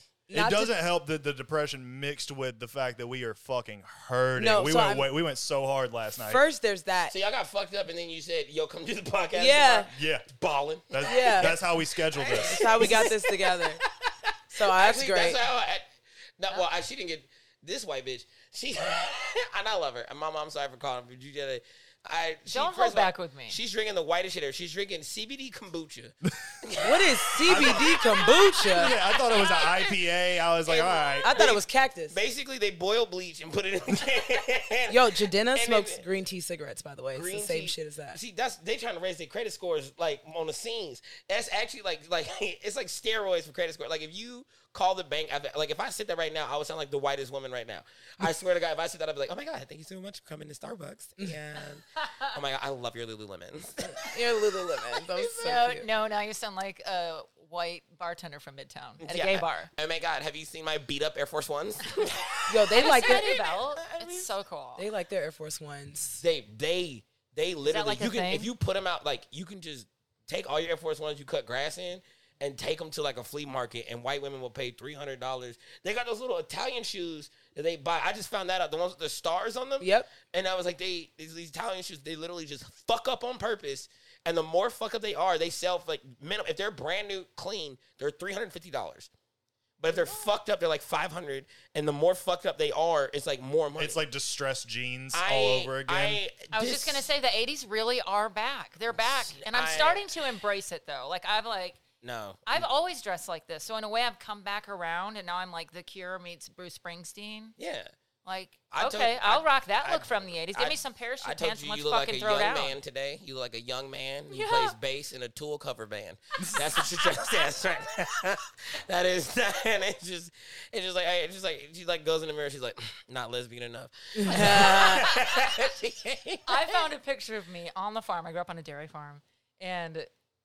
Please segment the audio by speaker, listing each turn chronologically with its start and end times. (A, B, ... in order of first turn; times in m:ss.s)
0:00.3-0:00.7 A
0:00.3-0:06.4 B
0:04.4-0:05.1 A
0:06.2-0:07.1 A
0:07.1-0:15.9 C
0:09.3-0:09.9 A
0:09.9-0:10.3 B
0:10.9-0:13.0 B
0:11.0-0:11.6 A
0:12.4-0:13.8 A
0:14.5-0:15.4 A
0:16.4-0:29.9 C
0:22.5-0:23.6 D
0:26.8-0:28.9 A
0:28.7-0:31.3 B
0:30.6-0:36.0 C
0:31.2-0:32.2 A
0:34.9-0:38.2 A
0:37.1-0:54.1 C
0:53.8-0:55.8 A
0:55.2-0:59.7 D
0:59.0-1:04.3 C
1:02.5-1:03.3 A
1:02.7-1:04.8 D
1:04.8-1:06.2 A
1:06.2-1:29.1 C
1:07.6-1:08.5 D
1:19.8-1:20.1 A
1:29.8-1:34.0 C
1:29.9-1:30.3 D
1:33.8-1:36.2 B
1:35.1-1:37.1 C
1:36.5-1:41.8 D
1:38.9-1:40.1 C
1:42.0-1:42.7 C
1:42.5-1:47.5 D
1:47.6-1:47.9 C
1:48.2-1:52.8 D
1:48.7-2:06.8 C
1:54.3-1:54.7 D
2:04.1-2:05.1 A
2:06.5-2:10.1 D